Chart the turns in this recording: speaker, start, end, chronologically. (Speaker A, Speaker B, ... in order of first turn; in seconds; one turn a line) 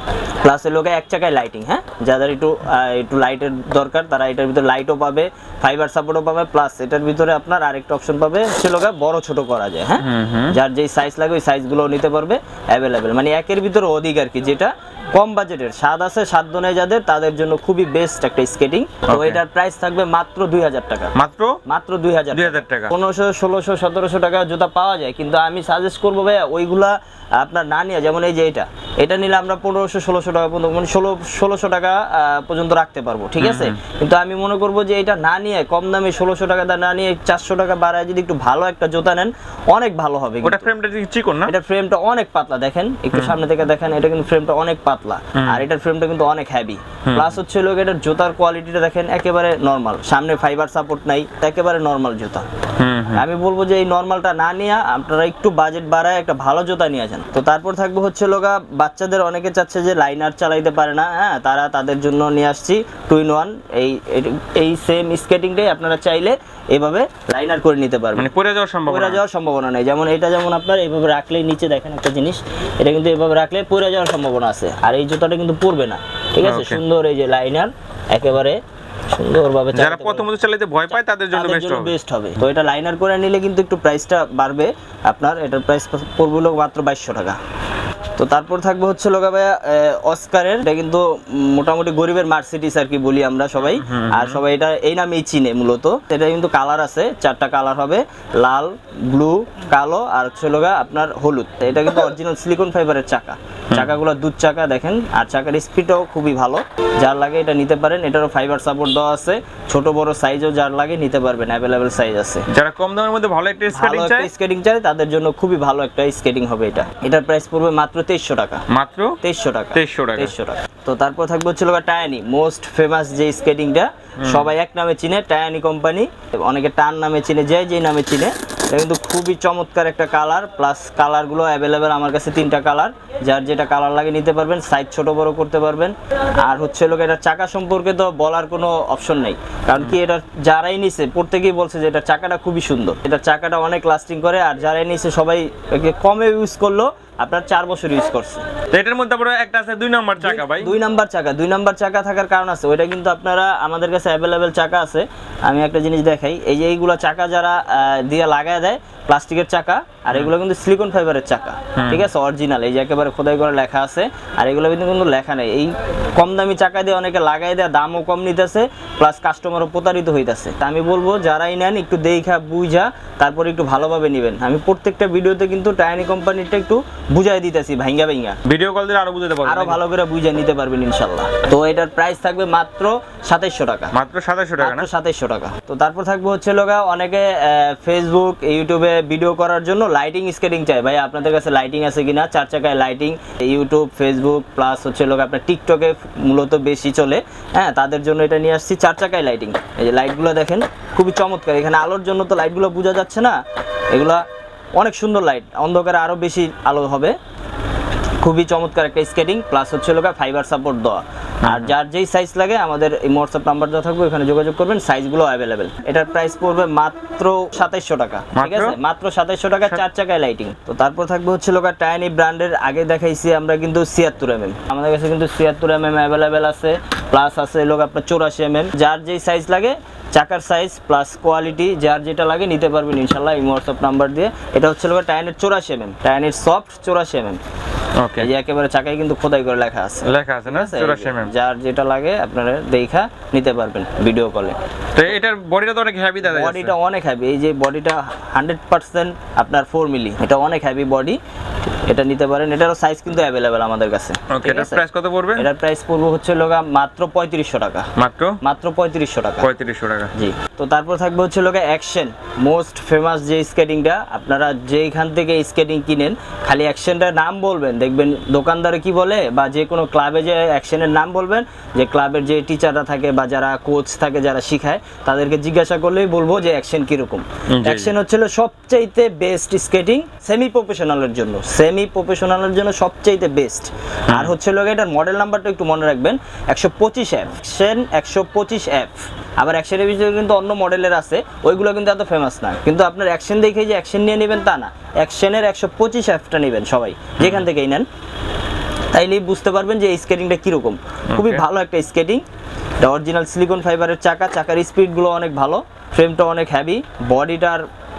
Speaker A: 0.4-21.1
Speaker B: 10.0-10.6
Speaker B: 19.1-19.4
Speaker B: 21.1-21.6
Speaker A: 21.6-40.7
Speaker B: 22.3-22.9
Speaker B: 33.4-33.8
Speaker B: 40.4-41.5
Speaker A: 41.5-52.5
Speaker B: 43.1-43.4
Speaker B: 45.4-45.6
Speaker B: 47.1-47.4
Speaker B: 52.8-53.2
Speaker A: 53.1-68.3
Speaker B: 68.2-69.2
Speaker A: 68.9-78.6
Speaker B: 76.4-76.8
Speaker A: 79.1-80.3
Speaker B: 79.7-82.0
Speaker A: 81.3-87.4
Speaker A: 88.2-112.5
Speaker B: 93.6-94.4
Speaker B: 103.7-104.0
Speaker B: 112.5-114.3
Speaker A: 113.7-118.6
Speaker B: 118.7-119.2
Speaker A: 119.2-148.4
Speaker B: 119.7-120.3
Speaker B: 124.2-124.5
Speaker B: 148.7-150.8
Speaker A: 150.2-178.4
Speaker B: 161.8-162.1
Speaker B: 178.5-179.8
Speaker A: 179.4-183.9
Speaker B: 183.9-184.9
Speaker A: 184.6-203.4
Speaker A: 203.9-204.2
Speaker A: 204.8-207.2
Speaker A: 208.2-237.4
Speaker B: 211.4-211.7
Speaker B: 218.3-218.8
Speaker B: 238.0-238.3
Speaker A: 238.2-244.6
Speaker B: 240.1-241.3
Speaker B: 245.0-246.7
Speaker A: 246.2-251.2
Speaker A: 251.9-254.8
Speaker B: 254.3-255.5
Speaker A: 255.4-257.9
Speaker B: 258.0-258.4
Speaker A: 258.4-259.5
Speaker B: 259.4-260.1
Speaker A: 260.1-297.9
Speaker B: 277.5-277.9
Speaker B: 297.2-297.4
Speaker A: 298.9-302.2
Speaker B: 301.1-301.4
Speaker A: 302.8-307.7